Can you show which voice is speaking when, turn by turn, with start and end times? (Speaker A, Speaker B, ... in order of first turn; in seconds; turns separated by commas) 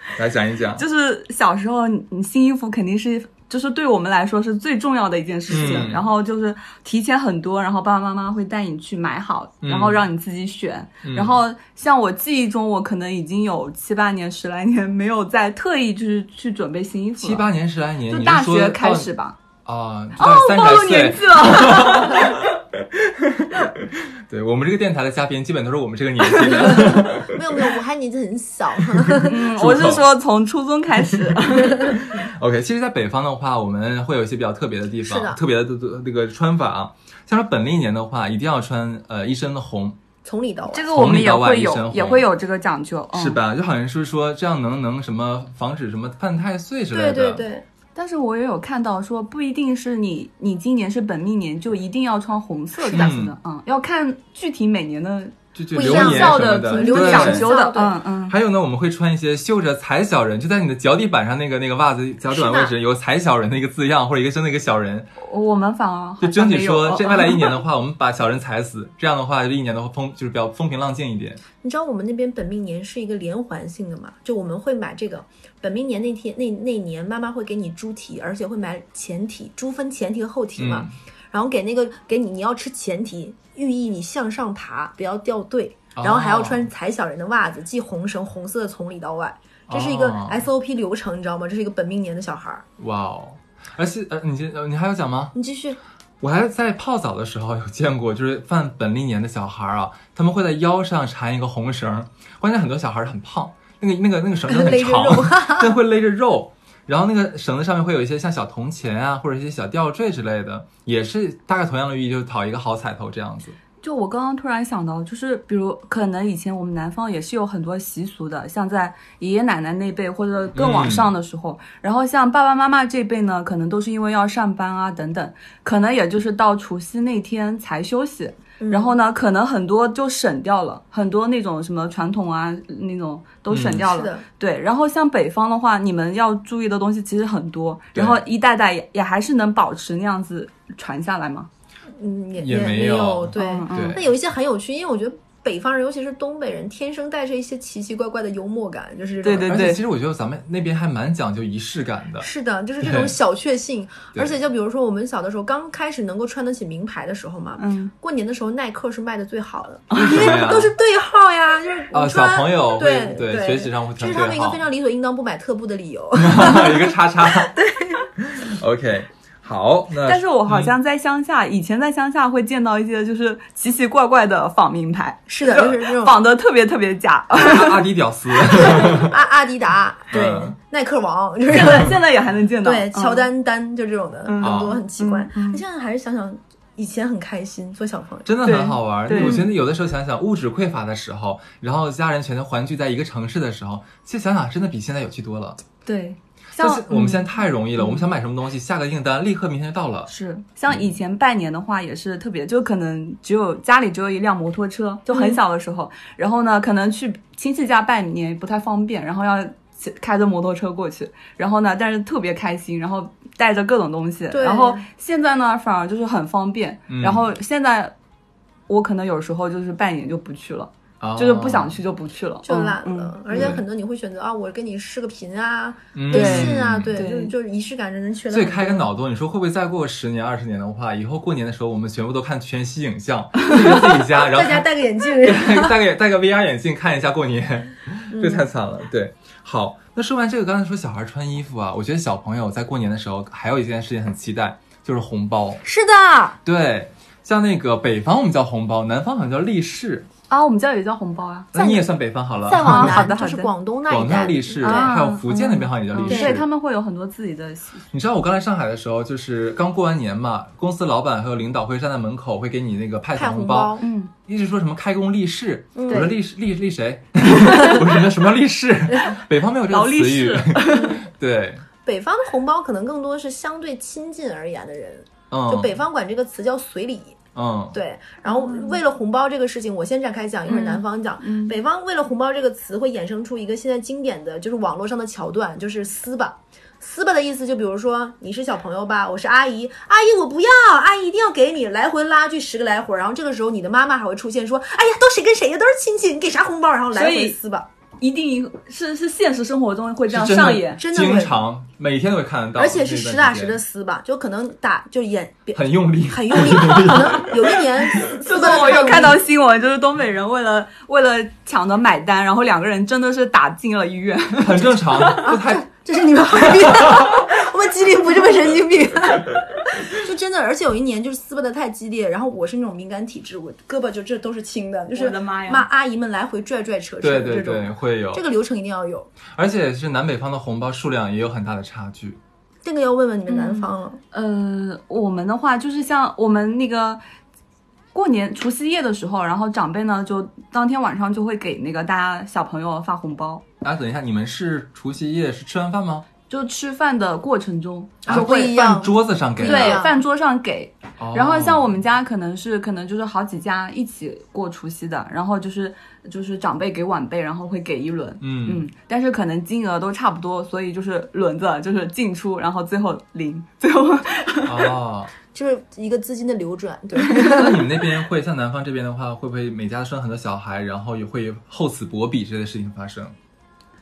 Speaker A: 0.1-0.8, Speaker B: 0.8-17.4, Speaker A: 5.5-6.0, Speaker C: 5.5-5.8, Speaker A: 9.6-10.0, Speaker A: 11.0-11.4, Speaker A: 17.2-19.1, Speaker B: 18.1-19.4, Speaker A: 19.6-27.6, Speaker B: 20.1-22.4, Speaker C: 26.6-29.4, Speaker A: 28.8-30.0, Speaker B: 29.2-32.0, Speaker A: 31.1-40.0, Speaker C: 35.0-35.4, Speaker C: 40.2-40.9, Speaker B: 40.7-43.4, Speaker A: 40.9-42.3, Speaker A: 43.1-47.5, Speaker C: 46.9-47.6, Speaker B: 47.9-58.4, Speaker C: 52.9-53.1, Speaker A: 52.9-53.4, Speaker A: 55.5-57.5, Speaker C: 55.7-58.0, Speaker A: 58.2-65.1, Speaker C: 62.3-62.7, Speaker B: 65.2-67.6, Speaker A: 66.2-71.4, Speaker C: 71.6-92.6, Speaker A: 80.6-80.9, Speaker A: 85.9-86.7, Speaker A: 89.7-90.5, Speaker A: 92.8-95.3, Speaker C: 95.3-95.8, Speaker A: 96.2-113.5, Speaker C: 104.5-105.8, Speaker B: 113.8-141.5, Speaker A: 120.5-121.1, Speaker C: 128.6-128.9, Speaker A: 133.5-133.8, Speaker C: 133.8-134.2, Speaker A: 137.9-138.2, Speaker C: 142.0-149.5, Speaker A: 142.4-144.1, Speaker B: 143.3-144.0, Speaker B: 149.2-149.8, Speaker A: 149.4-152.3, Speaker C: 152.2-168.1, Speaker A: 152.8-153.1, Speaker B: 157.6-157.9, Speaker B: 159.9-160.3, Speaker A: 159.9-160.7, Speaker A: 161.9-164.7, Speaker A: 166.2-167.5, Speaker A: 168.2-170.7, Speaker B: 170.0-177.8, Speaker C: 175.3-176.2, Speaker A: 177.3-179.1, Speaker C: 178.5-182.0, Speaker A: 180.1-180.5, Speaker B: 181.5-183.3, Speaker C: 182.6-188.3, Speaker B: 184.2-185.6, Speaker A: 184.4-184.8, Speaker A: 188.2-195.6, Speaker B: 188.4-189.5, Speaker C: 189.1-189.4, Speaker B: 195.8-198.1, Speaker A: 196.6-200.1, Speaker B: 200.1-217.9, Speaker C: 205.1-205.4, Speaker C: 214.3-214.8, Speaker A: 216.9-217.3, Speaker B: 218.7-223.5, Speaker A: 221.0-221.8, Speaker C: 222.4-228.9, Speaker A: 223.3-223.6, Speaker A: 225.9-227.0, Speaker B: 226.1-227.3, Speaker A: 228.3-234.7, Speaker C: 233.5-235.8, Speaker A: 235.2-245.6, Speaker C: 238.1-238.5, Speaker C: 245.6-246.4, Speaker A: 246.4-250.1, Speaker B: 250.3-251.5, Speaker A: 251.5-253.1, Speaker C: 251.5-254.9, Speaker B: 252.5-253.5, Speaker A: 253.9-256.4, Speaker B: 254.6-257.8, Speaker C: 256.0-256.4, Speaker A: 257.9-271.6, Speaker C: 263.1-263.9, Speaker B: 263.8-264.1, Speaker C: 265.7-266.1, Speaker B: 269.7-271.0, Speaker C: 270.7-271.0, Speaker C: 271.8-277.2, Speaker A: 275.3-275.8, Speaker A: 277.3-277.8, Speaker C: 277.7-297.7, Speaker B: 278.3-278.8, Speaker B: 280.5-281.6, Speaker B: 296.9-297.4, Speaker B: 298.0-300.8, Speaker A: 300.1-303.6, Speaker C: 300.8-301.4, Speaker C: 302.6-309.2, Speaker A: 305.5-308.1, Speaker B: 308.0-315.3, Speaker A: 314.4-315.6, Speaker C: 315.1-329.1, Speaker A: 316.6-317.1, Speaker B: 324.9-325.6, Speaker A: 327.0-328.2, Speaker A: 329.3-332.2, Speaker C: 332.6-334.0, Speaker B: 333.3-337.0, Speaker B: 337.9-343.4, Speaker A: 343.6-346.1, Speaker B: 346.3-348.6, Speaker C: 348.0-350.0, Speaker A: 348.1-349.8, Speaker B: 349.4-364.7, Speaker A: 351.0-351.7, Speaker A: 358.2-358.6, Speaker A: 364.4-365.1, Speaker C: 365.3-367.8, Speaker B: 367.0-367.4, Speaker A: 367.1-373.1